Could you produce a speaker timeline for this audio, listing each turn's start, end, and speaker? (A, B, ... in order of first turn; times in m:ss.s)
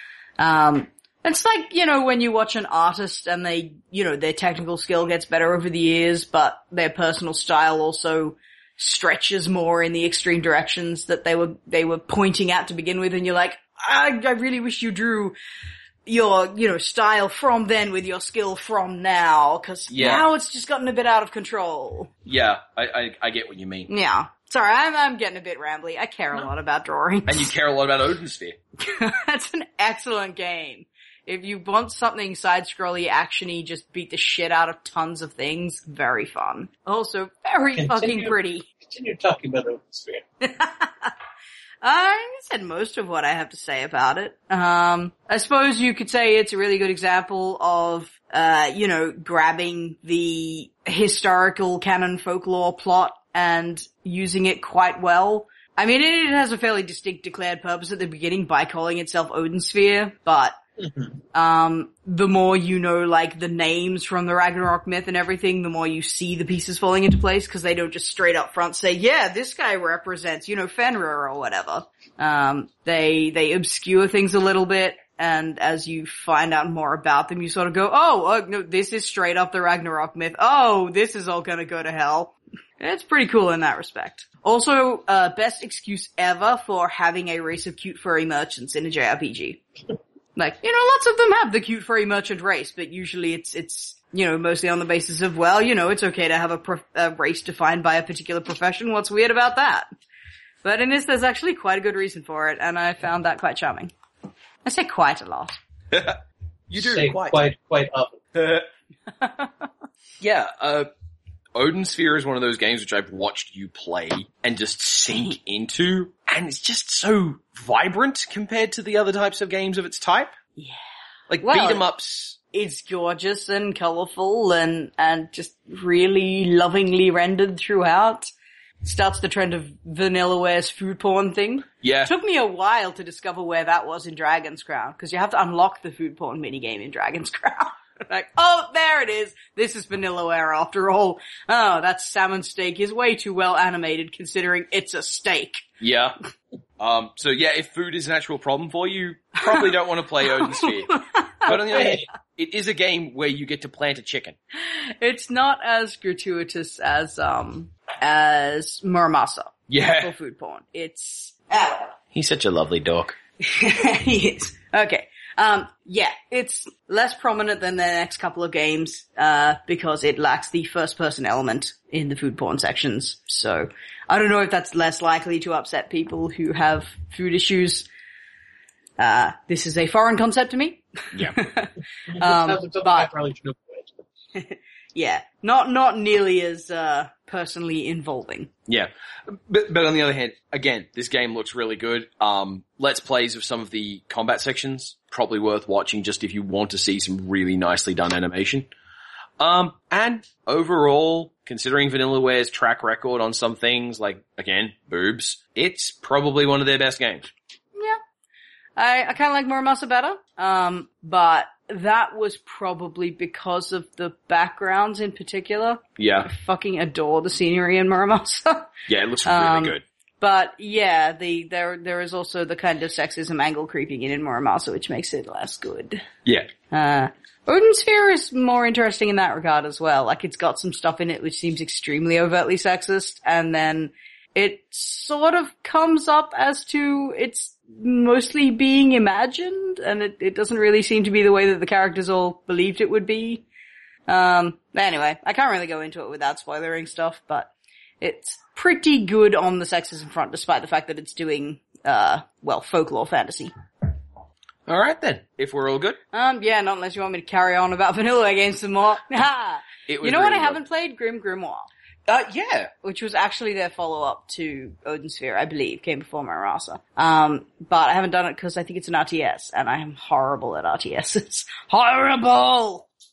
0:00.4-0:15.3 A
0:16.0-0:22.1 A
0:19.9-0:20.2 B
0:22.2-0:23.9 B
0:23.9-0:27.5 A
0:27.2-0:28.6 B
0:28.8-0:38.6 A
0:37.8-0:40.2 C
0:40.4-0:41.1 A
0:41.8-1:00.6 A
1:00.8-1:01.2 C
1:01.3-1:29.6 A
1:30.4-1:39.9 A
1:40.6-1:43.9 A
1:44.6-1:45.6 A
1:45.9-1:47.4 B
1:46.7-1:48.2 C
1:48.3-1:48.7 B
1:49.2-1:49.5 A
1:50.2-1:50.9 B
1:51.5-2:00.4 B
2:01.3-2:02.4 B
2:01.4-2:01.8 A
2:02.5-2:08.3 A
2:08.8-2:25.6 A
2:11.8-2:12.1 B
2:25.8-2:26.2 B
2:26.8-2:34.4 B
2:30.3-2:32.0 A
2:34.5-2:41.9 A
2:39.7-2:40.1 B
2:42.1-2:43.2 B
2:43.4-2:57.8 A
2:59.0-3:03.1 A
3:02.1-3:03.9 C
3:04.4-3:08.5 A
3:08.7-3:18.7 B
3:19.4-3:27.3 B
3:28.8-3:38.7 A
3:36.0-3:36.3 B
3:38.9-3:39.8 B
3:39.2-3:46.1 A
3:46.7-4:03.4 A
4:04.1-4:07.5 A
4:08.0-4:13.5 A
4:14.6-4:16.0 B
4:16.1-4:21.7 A
4:19.9-4:20.6 B
4:22.1-4:22.7 B
4:22.8-4:32.9 A